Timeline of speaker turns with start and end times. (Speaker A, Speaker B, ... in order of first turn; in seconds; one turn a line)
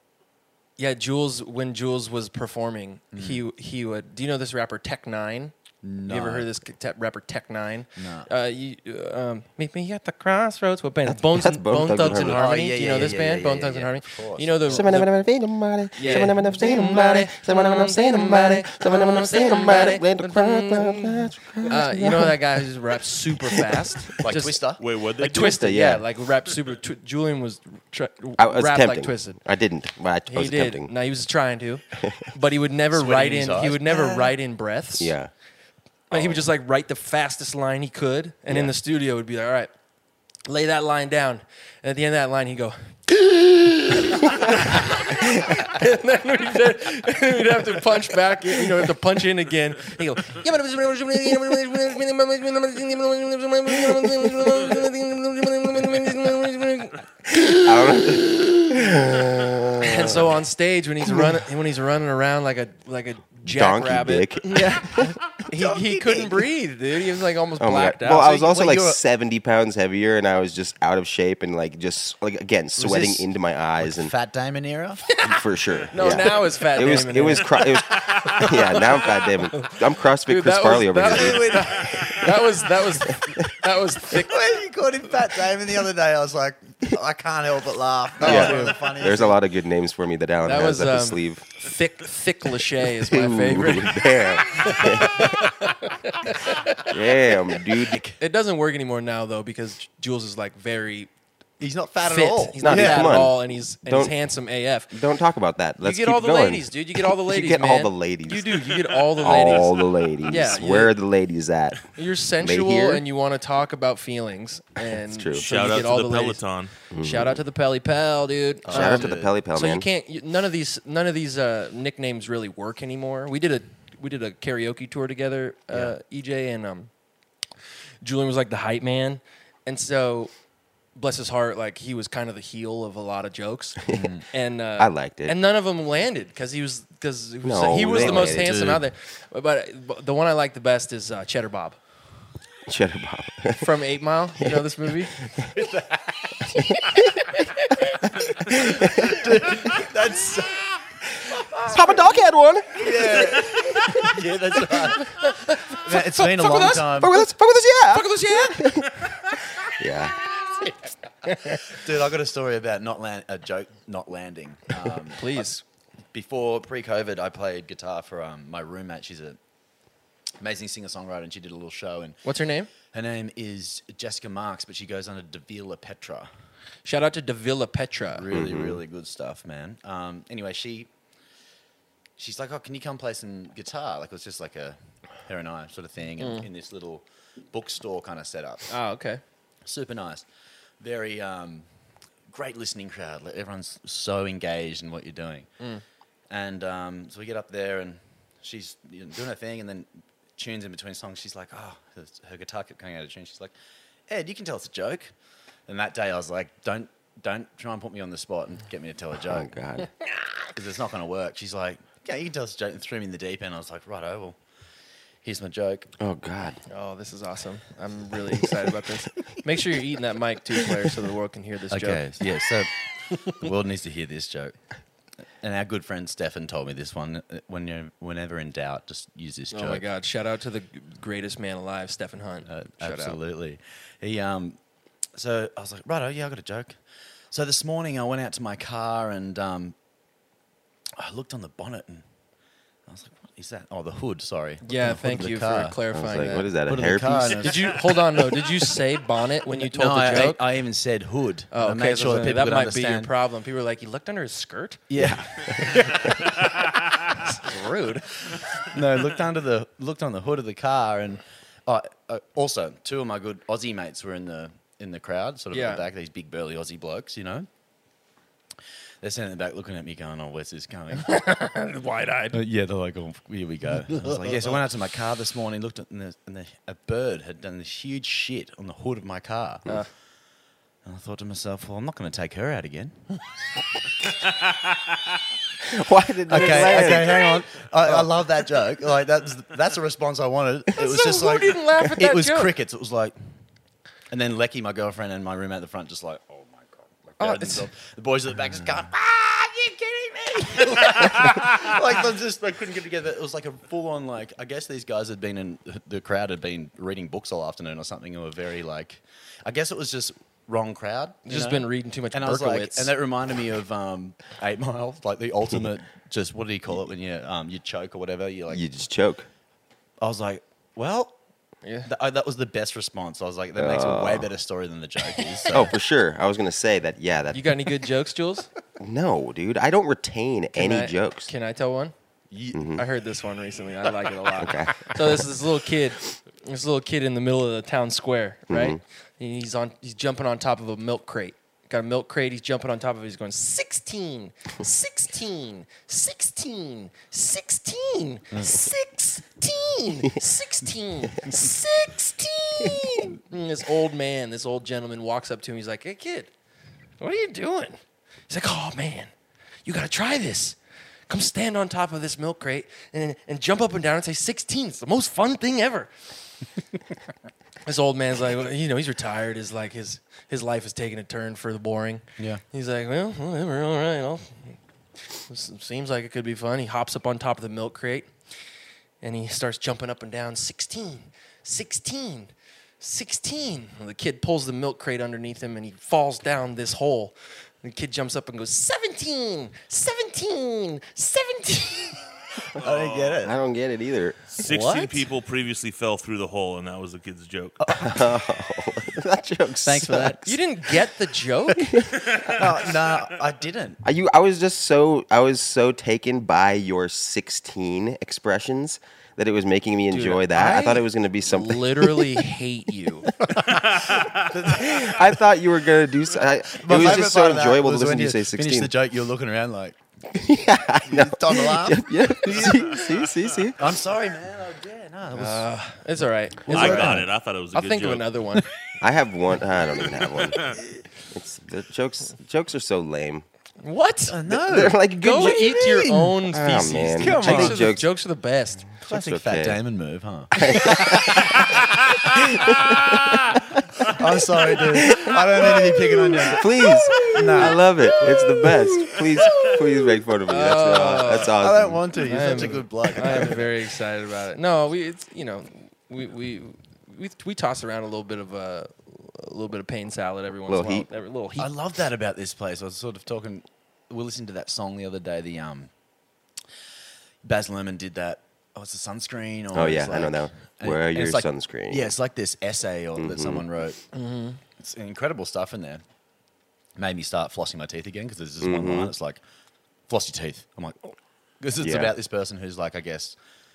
Speaker A: 0.8-15.1
Speaker B: 3.1-3.4
Speaker B: 5.8-6.5
Speaker B: 8.0-8.3
Speaker C: 11.1-12.5
Speaker B: 12.1-14.9
Speaker C: 14.7-22.5
Speaker A: 15.9-24.6
Speaker B: 16.0-16.3
Speaker C: 23.6-24.2
Speaker B: 24.2-24.8
Speaker D: 24.8-25.6
Speaker A: 25.2-29.4
Speaker C: 25.2-26.0
Speaker C: 28.4-30.9
Speaker A: 30.3-35.1
Speaker C: 32.0-32.3
Speaker B: 32.9-34.3
Speaker C: 35.0-35.3
Speaker A: 36.1-39.7
Speaker C: 36.1-36.5
Speaker C: 38.5-38.7
Speaker A: 40.5-59.0
Speaker C: 57.3-60.4
Speaker A: 59.8-68.4
Speaker C: 63.4-65.2
Speaker B: 65.5-66.5
Speaker C: 67.6-74.1
Speaker B: 68.1-69.0
Speaker B: 72.8-73.2
Speaker B: 73.8-75.0
Speaker A: 75.0-75.4
Speaker C: 75.2-81.7
Speaker A: 75.9-84.3
Speaker B: 81.0-82.4
Speaker B: 84.1-89.4
Speaker A: 88.2-88.8
Speaker C: 88.2-91.4
Speaker A: 90.4-97.6
Speaker C: 92.9-95.5
Speaker C: 96.8-98.0
Speaker B: 97.8-98.2
Speaker A: 98.2-101.1
Speaker B: 101.6-103.3
Speaker A: 102.0-104.9
Speaker C: 102.6-104.1
Speaker C: 104.9-108.7
Speaker A: 105.8-111.0
Speaker D: 108.7-109.9
Speaker C: 109.2-111.9
Speaker A: 111.9-126.9
Speaker C: 112.4-113.0
Speaker C: 115.1-115.5
Speaker D: 115.3-116.7
Speaker C: 116.9-117.4
Speaker B: 118.7-119.3
Speaker C: 118.7-119.8
Speaker A: 128.0-130.3
Speaker A: 130.9-141.8
Speaker B: 133.9-134.2
Speaker C: 134.8-135.4
Speaker C: 137.4-138.8
Speaker B: 137.9-138.8
Speaker C: 142.7-143.7
Speaker A: 143.6-145.1
Speaker C: 145.2-145.5
Speaker B: 145.5-146.3
Speaker A: 146.5-148.0
Speaker C: 146.6-147.2
Speaker C: 148.4-149.3
Speaker B: 148.6-152.0
Speaker C: 151.7-154.0
Speaker B: 152.7-157.2
Speaker A: 155.2-157.3
Speaker C: 156.6-160.2
Speaker A: 157.8-159.1
Speaker A: 161.3-161.5
Speaker B: 161.4-165.5
Speaker A: 165.1-165.6
Speaker B: 166.1-169.4
Speaker B: 170.4-172.2
Speaker A: 172.2-172.7
Speaker B: 172.8-176.3
Speaker A: 176.8-178.3
Speaker B: 178.1-180.9
Speaker C: 178.3-178.8
Speaker B: 182.2-188.7
Speaker A: 186.2-186.5
Speaker A: 188.7-189.2
Speaker B: 189.6-190.2
Speaker B: 190.8-191.7
Speaker B: 192.3-195.5
Speaker B: 196.3-203.5
Speaker B: 204.1-205.1
Speaker B: 205.7-209.5
Speaker C: 209.2-209.9
Speaker B: 210.5-214.4
Speaker B: 215.2-215.9
Speaker C: 216.0-216.6
Speaker A: 216.7-222.0
Speaker B: 221.7-224.6
Speaker B: 225.4-229.8
Speaker A: 229.5-233.2
Speaker B: 232.4-234.6
Speaker B: 235.1-236.8
Speaker B: 237.3-239.7
Speaker B: 240.9-242.0
Speaker B: 242.8-245.8
Speaker A: 244.6-246.5
Speaker C: 245.9-247.7
Speaker B: 246.7-248.4
Speaker A: 247.3-250.4
Speaker B: 249.5-253.1
Speaker A: 251.5-256.5
Speaker B: 254.9-256.2
Speaker A: 257.1-258.2
Speaker B: 258.6-267.5
Speaker A: 265.5-265.9
Speaker B: 269.0-271.1
Speaker A: 271.0-272.4
Speaker B: 272.3-279.8
Speaker A: 273.9-274.5
Speaker B: 280.8-283.2
Speaker C: 285.6-287.4
Speaker B: 286.3-293.1
Speaker A: 286.4-286.9
Speaker A: 290.8-292.6
Speaker B: 294.1-318.6
Speaker A: 297.2-297.7
Speaker A: 311.2-312.9
Speaker C: 318.5-319.3
Speaker B: 320.0-321.1
Speaker B: 321.8-325.7
Speaker C: 323.6-324.3
Speaker A: 325.1-325.6
Speaker C: 325.5-327.7
Speaker A: 327.3-328.5
Speaker C: 328.8-331.3
Speaker A: 330.5-331.9
Speaker B: 332.3-332.6
Speaker C: 332.5-332.8
Speaker A: 332.7-356.3
Speaker C: 334.4-335.2
Speaker C: 338.5-338.8
Speaker C: 352.6-352.9
Speaker A: 357.0-359.1
Speaker A: 359.6-360.6
Speaker A: 361.1-365.9
Speaker A: 367.6-374.6
Speaker A: 375.2-378.1
Speaker A: 379.0-392.1
Speaker B: 392.5-393.3
Speaker D: 392.6-393.2
Speaker C: 393.2-394.3
Speaker D: 394.3-397.7
Speaker A: 394.4-395.0
Speaker B: 397.6-397.9
Speaker C: 397.7-400.2
Speaker B: 399.6-400.3
Speaker A: 399.9-401.8
Speaker C: 401.6-402.4
Speaker B: 402.2-403.8
Speaker C: 403.8-412.2
Speaker A: 409.9-413.1
Speaker B: 413.3-415.1
Speaker C: 414.4-418.7
Speaker B: 416.5-419.8
Speaker C: 420.1-423.7
Speaker B: 420.8-422.8
Speaker D: 422.5-423.5
Speaker B: 423.6-425.5
Speaker A: 425.1-428.5
Speaker B: 426.4-427.1
Speaker D: 426.5-428.1
Speaker C: 428.8-430.6
Speaker D: 429.9-430.6
Speaker C: 431.1-433.2
Speaker A: 433.6-434.2
Speaker B: 434.1-436.2
Speaker C: 434.3-437.9
Speaker A: 435.0-438.7
Speaker B: 436.9-437.7
Speaker C: 438.8-439.6
Speaker B: 438.8-449.8
Speaker A: 440.4-441.4
Speaker C: 440.4-441.6
Speaker C: 442.2-443.2
Speaker C: 444.7-445.6
Speaker C: 446.2-451.9
Speaker A: 446.9-447.5
Speaker D: 449.2-449.5
Speaker A: 450.3-451.4
Speaker B: 451.3-453.5
Speaker A: 451.9-461.5
Speaker C: 460.5-460.9
Speaker B: 461.4-465.7
Speaker B: 467.2-473.8
Speaker C: 469.5-471.9
Speaker C: 472.9-473.5
Speaker A: 473.9-474.4
Speaker B: 474.6-475.8
Speaker B: 476.8-479.2
Speaker C: 478.4-478.9
Speaker B: 479.9-483.1
Speaker C: 481.6-481.9